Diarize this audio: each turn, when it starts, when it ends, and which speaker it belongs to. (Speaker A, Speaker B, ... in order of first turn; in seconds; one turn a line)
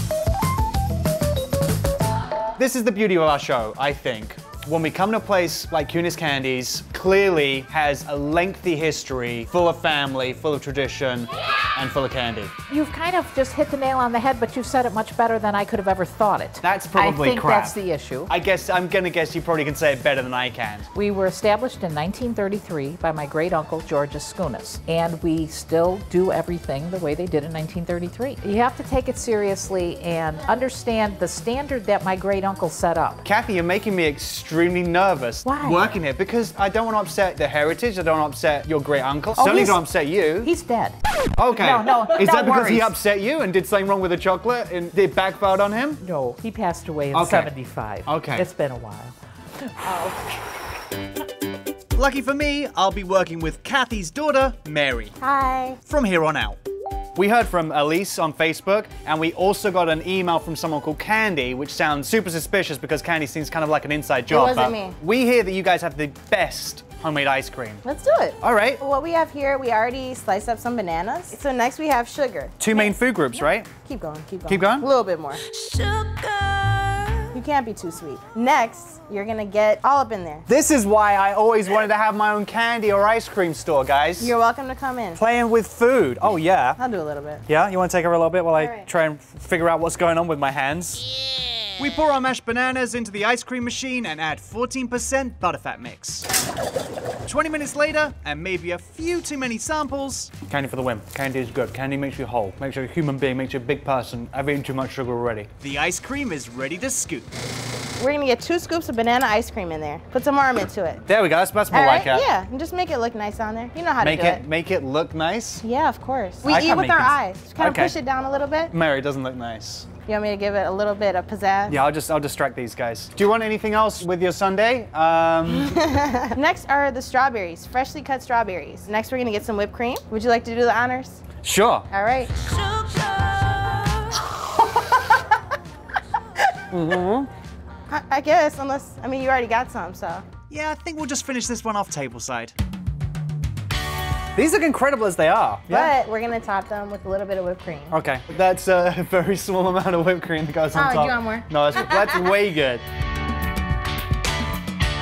Speaker A: 2.6-12.5
Speaker B: 12.7-18.3
Speaker A: 16.6-17.8
Speaker A: 18.3-20.9
Speaker B: 20.9-33.2
Speaker A: 33.2-40.5
Speaker B: 35.4-35.9
Speaker B: 39.4-39.8
Speaker B: 40.4-41.0
Speaker A: 41.4-46.0
Speaker B: 41.5-42.9
Speaker B: 46.0-50.5
Speaker A: 47.1-47.5
Speaker A: 48.0-48.5
Speaker A: 51.9-55.1
Speaker C: 55.2-55.8
Speaker A: 55.9-56.6
Speaker A: 57.1-67.8
Speaker C: 64.3-65.0
Speaker C: 67.8-72.9
Speaker A: 68.4-68.8
Speaker A: 72.6-73.7
Speaker C: 73.7-75.4
Speaker A: 74.5-74.8
Speaker B: 75.5-77.2
Speaker C: 77.3-80.5
Speaker A: 80.5-84.3
Speaker C: 84.2-85.2
Speaker A: 85.2-86.8
Speaker C: 86.8-87.4
Speaker A: 87.5-91.0
Speaker C: 88.6-88.9
Speaker A: 91.8-96.3
Speaker A: 97.2-107.3
Speaker C: 108.0-111.0
Speaker A: 111.0-112.3
Speaker C: 111.7-114.4
Speaker A: 114.0-115.6
Speaker C: 115.6-118.7
Speaker A: 116.4-118.0
Speaker A: 118.7-119.9
Speaker C: 120.0-121.8
Speaker A: 121.7-125.8
Speaker C: 125.6-131.2
Speaker A: 131.4-131.9
Speaker C: 131.9-133.7
Speaker C: 134.8-135.1
Speaker A: 136.7-137.3
Speaker C: 137.9-140.3
Speaker A: 140.5-142.5
Speaker A: 144.3-145.9
Speaker C: 145.7-147.9
Speaker A: 147.9-152.8
Speaker C: 150.7-151.5